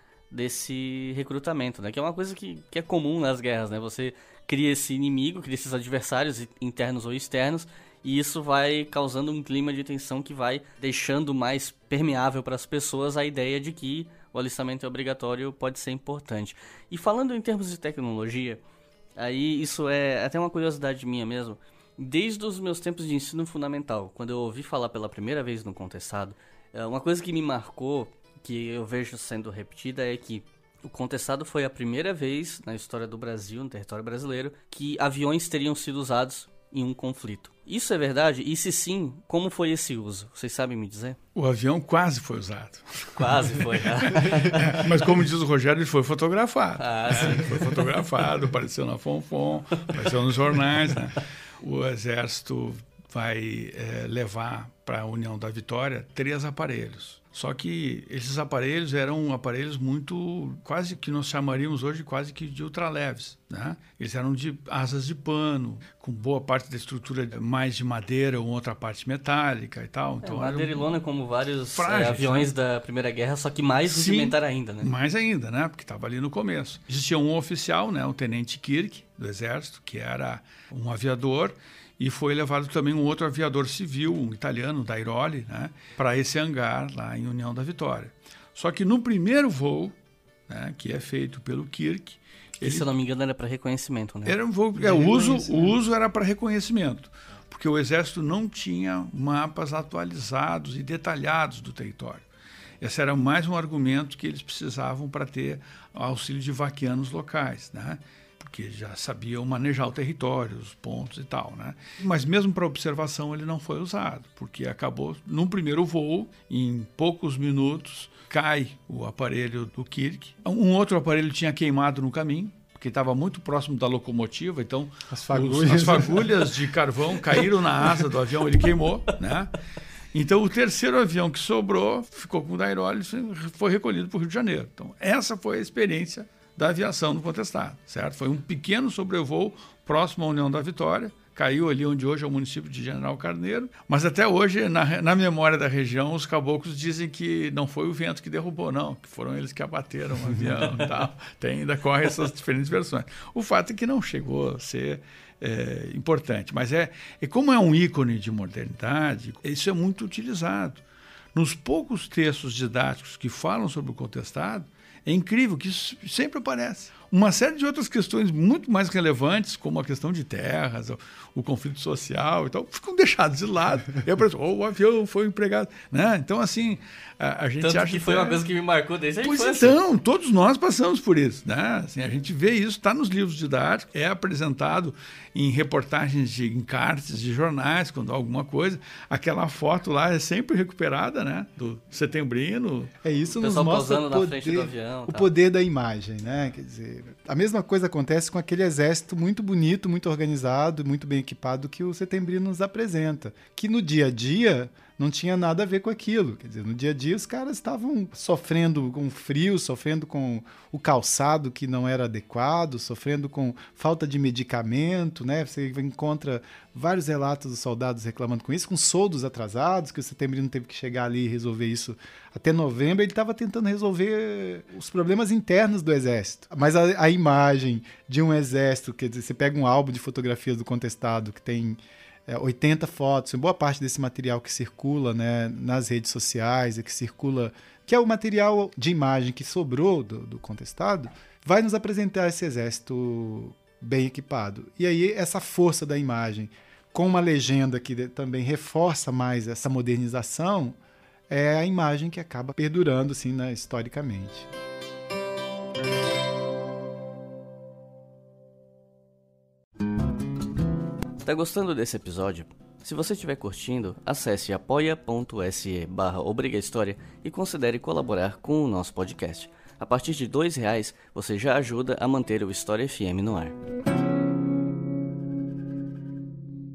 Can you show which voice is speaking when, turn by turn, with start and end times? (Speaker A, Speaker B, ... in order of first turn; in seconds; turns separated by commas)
Speaker A: 0.3-18.6, Speaker A: 19.2-41.2, Speaker B: 41.4-70.9, Speaker A: 43.2-45.0, Speaker A: 46.8-48.0, Speaker A: 70.2-74.9, Speaker B: 71.7-72.5, Speaker B: 73.9-90.0, Speaker B: 90.5-92.9, Speaker A: 92.6-95.7, Speaker B: 94.3-102.2, Speaker B: 102.8-129.6, Speaker C: 125.1-126.4, Speaker B: 130.1-160.8, Speaker B: 161.3-178.4, Speaker A: 177.6-179.8, Speaker B: 179.2-192.9, Speaker C: 193.0-250.8, Speaker A: 193.4-195.3, Speaker C: 251.3-254.5, Speaker A: 261.2-273.6